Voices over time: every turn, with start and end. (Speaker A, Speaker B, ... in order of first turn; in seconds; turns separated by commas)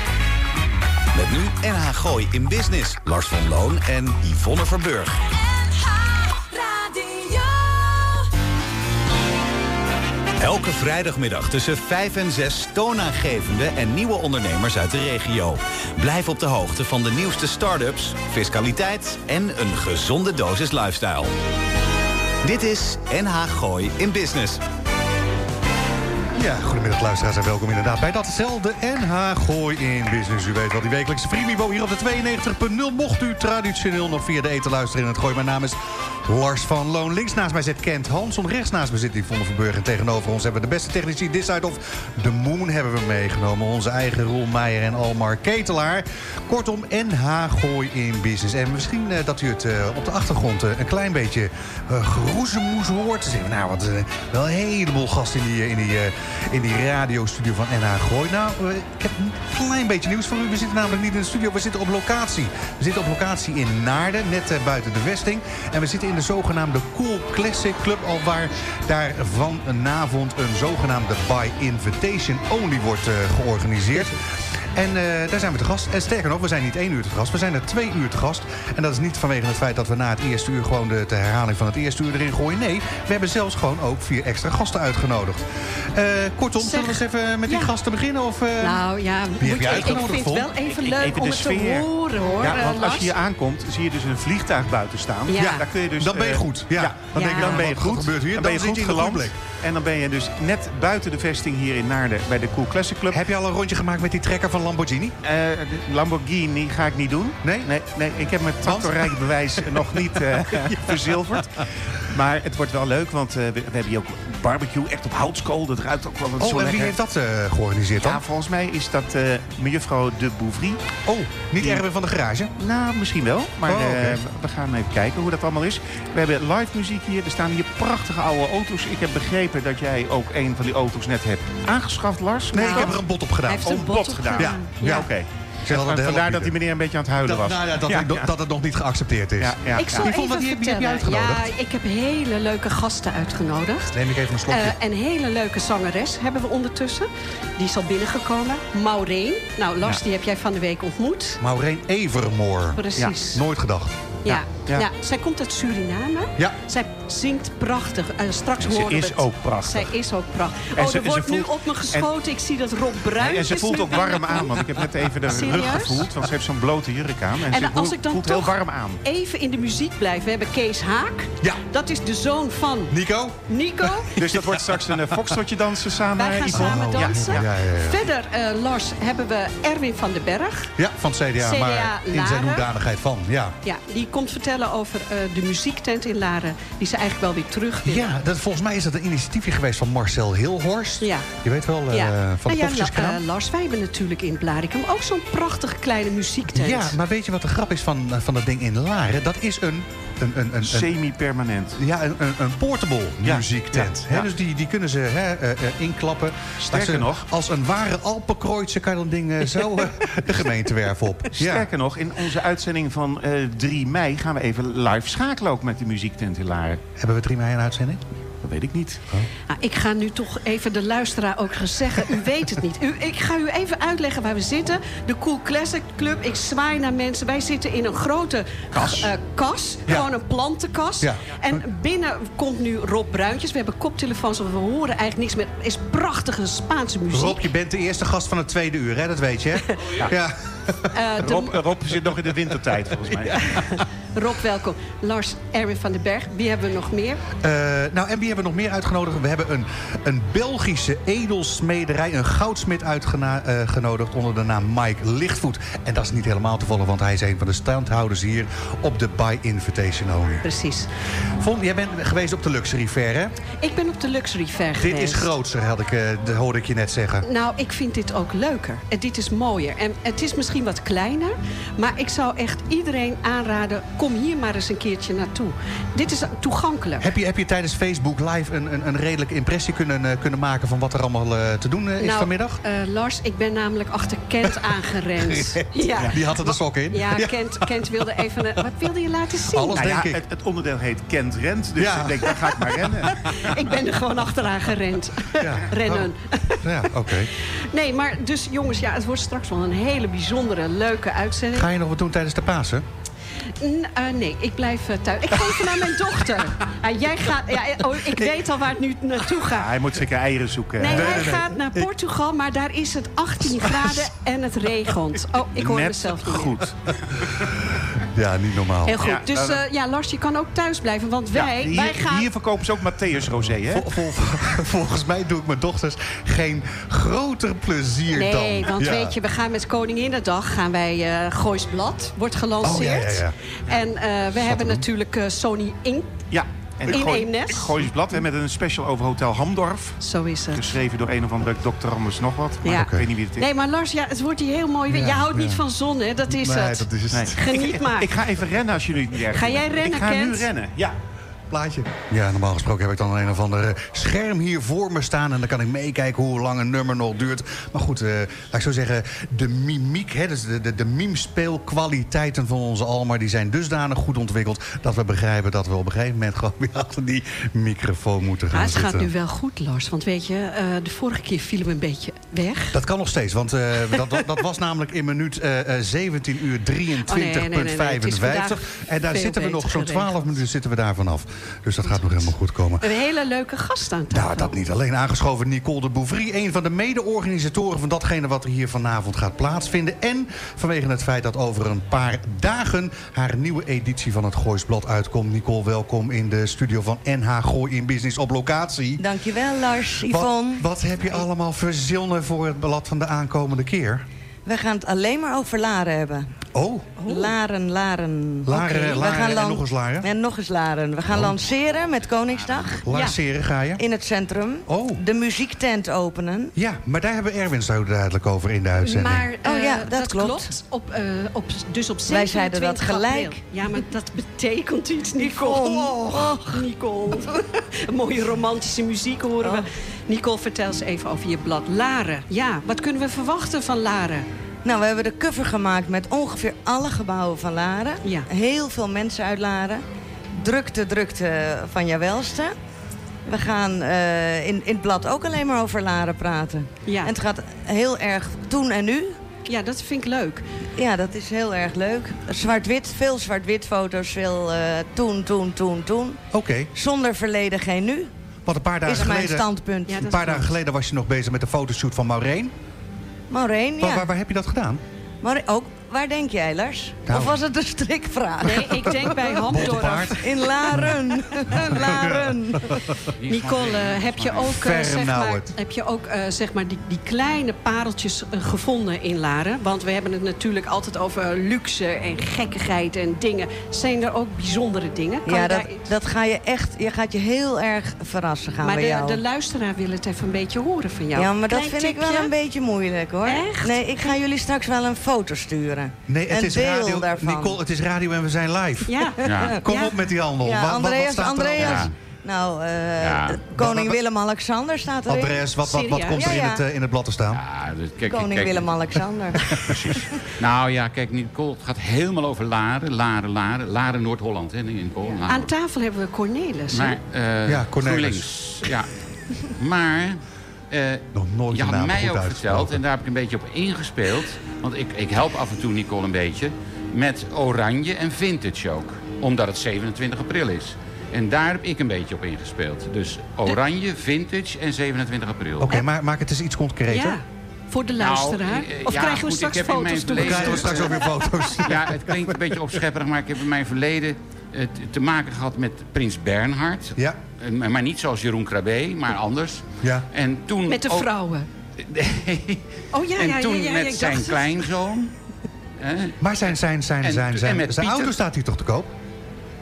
Speaker A: 1.1-5.4, Speaker B: 6.3-7.6, Speaker A: 10.4-21.3, Speaker A: 22.4-24.6, Speaker C: 26.3-88.8, Speaker B: 86.6-87.7, Speaker B: 88.6-93.1, Speaker C: 89.4-90.5, Speaker D: 90.7-103.2, Speaker B: 95.3-95.7, Speaker C: 95.3-99.3, Speaker B: 97.1-97.6, Speaker C: 103.1-105.1, Speaker D: 105.2-116.9, Speaker C: 107.4-107.7, Speaker C: 108.6-110.1, Speaker C: 116.4-118.2, Speaker D: 118.0-120.8, Speaker C: 121.1-122.5, Speaker D: 122.6-132.9, Speaker C: 123.7-124.2, Speaker C: 132.5-134.7, Speaker B: 132.7-132.9, Speaker B: 133.5-135.1, Speaker D: 133.6-138.3, Speaker C: 135.7-136.6, Speaker C: 137.2-141.5, Speaker D: 139.4-140.1, Speaker B: 139.8-143.9, Speaker C: 143.9-144.8, Speaker B: 144.5-151.4, Speaker C: 151.4-153.9, Speaker B: 152.7-153.4, Speaker B: 154.2-164.6, Speaker D: 154.3-154.9, Speaker D: 158.6-159.9, Speaker D: 160.8-162.1, Speaker D: 163.2-169.0, Speaker B: 165.3-166.0, Speaker B: 167.5-173.0, Speaker C: 172.9-174.7, Speaker B: 173.5-174.1, Speaker D: 174.2-177.4, Speaker B: 176.1-180.7, Speaker C: 176.5-178.0, Speaker C: 180.8-183.6, Speaker B: 181.4-182.7, Speaker B: 183.6-188.1, Speaker C: 187.8-193.2, Speaker B: 191.0-191.3, Speaker B: 191.9-196.9, Speaker C: 196.5-200.9, Speaker D: 200.6-201.8, Speaker C: 201.8-211.7, Speaker D: 203.2-204.3, Speaker D: 206.6-207.2, Speaker D: 211.3-216.8, Speaker C: 217.0-218.0, Speaker D: 218.4-219.0, Speaker B: 219.5-237.5, Speaker D: 228.7-229.1, Speaker C: 231.0-231.6, Speaker C: 237.1-240.9, Speaker B: 240.9-241.6, Speaker D: 241.2-243.6, Speaker B: 243.4-247.2, Speaker C: 247.4-260.4, Speaker B: 260.4-260.9, Speaker C: 261.4-263.3, Speaker B: 263.6-265.3, Speaker C: 264.8-267.2, Speaker B: 267.2-277.1, Speaker C: 277.0-282.6, Speaker B: 282.0-286.3, Speaker C: 284.4-288.6, Speaker B: 286.9-289.9, Speaker C: 289.5-290.2, Speaker D: 289.7-293.5, Speaker C: 291.8-293.1, Speaker B: 293.2-301.7, Speaker C: 295.4-297.3, Speaker C: 301.5-302.8, Speaker B: 303.6-309.7, Speaker D: 309.4-311.5, Speaker B: 310.8-316.6, Speaker C: 310.9-311.8, Speaker D: 315.5-317.4, Speaker C: 318.0-319.1, Speaker B: 318.8-322.3, Speaker D: 319.0-319.6, Speaker D: 321.3-323.9, Speaker C: 323.7-329.1, Speaker B: 328.1-336.1, Speaker C: 332.6-333.4, Speaker C: 334.4-334.8, Speaker D: 336.3-339.9, Speaker B: 336.9-337.7, Speaker B: 340.0-340.8, Speaker D: 340.5-343.5, Speaker B: 342.6-348.1, Speaker C: 342.8-343.1, Speaker C: 344.9-345.6, Speaker C: 346.3-347.4, Speaker D: 347.1-350.9, Speaker B: 349.3-350.5, Speaker C: 351.5-369.1, Speaker B: 368.5-372.8, Speaker C: 372.7-382.8, Speaker B: 377.0-380.4, Speaker B: 382.8-384.5, Speaker C: 384.1-399.0, Speaker E: 399.0-400.7, Speaker C: 400.1-404.1, Speaker E: 404.4-406.3, Speaker C: 406.5-407.0, Speaker B: 407.0-407.3, Speaker E: 407.0-412.9, Speaker C: 408.4-410.1, Speaker C: 411.1-411.3, Speaker C: 412.8-413.8, Speaker B: 412.9-413.2, Speaker E: 413.8-416.5, Speaker C: 414.7-415.0, Speaker C: 416.5-419.3, Speaker B: 418.8-434.2, Speaker E: 419.4-420.5, Speaker E: 422.1-423.4, Speaker E: 425.2-426.6, Speaker E: 434.6-439.8, Speaker E: 440.3-442.5, Speaker E: 443.2-449.2, Speaker B: 446.9-447.1, Speaker B: 449.5-450.4, Speaker E: 450.8-456.2, Speaker C: 456.3-456.7, Speaker E: 456.7-458.1, Speaker C: 458.4-462.5, Speaker E: 458.8-460.0, Speaker B: 459.9-460.4, Speaker E: 463.3-464.1, Speaker C: 463.8-464.8, Speaker E: 465.2-472.7, Speaker C: 467.1-467.4, Speaker B: 468.4-470.2, Speaker C: 469.5-472.8, Speaker F: 473.1-474.6, Speaker B: 473.3-485.9, Speaker C: 474.5-475.5, Speaker E: 485.2-489.2, Speaker B: 488.6-492.3, Speaker E: 491.1-497.6, Speaker B: 493.2-493.8, Speaker C: 496.1-501.9, Speaker B: 498.9-499.9, Speaker F: 499.2-499.6, Speaker E: 499.3-499.6, Speaker E: 500.4-505.5, Speaker F: 501.6-501.9, Speaker F: 503.0-503.4, Speaker C: 503.5-504.0, Speaker C: 505.1-507.4, Speaker B: 505.6-506.3, Speaker E: 506.1-506.6, Speaker F: 507.3-508.7, Speaker E: 508.1-510.0, Speaker C: 509.4-509.8, Speaker F: 509.5-515.5, Speaker B: 515.3-517.0, Speaker F: 516.7-518.9, Speaker C: 517.5-518.3, Speaker F: 519.5-535.7, Speaker C: 521.1-522.8, Speaker C: 535.6-537.2, Speaker B: 536.9-541.5, Speaker F: 538.0-551.1, Speaker C: 540.1-542.6, Speaker C: 549.8-550.1, Speaker B: 550.6-551.5, Speaker F: 551.8-555.1, Speaker B: 552.9-554.7, Speaker F: 555.8-556.2, Speaker C: 556.2-558.9, Speaker F: 557.0-558.1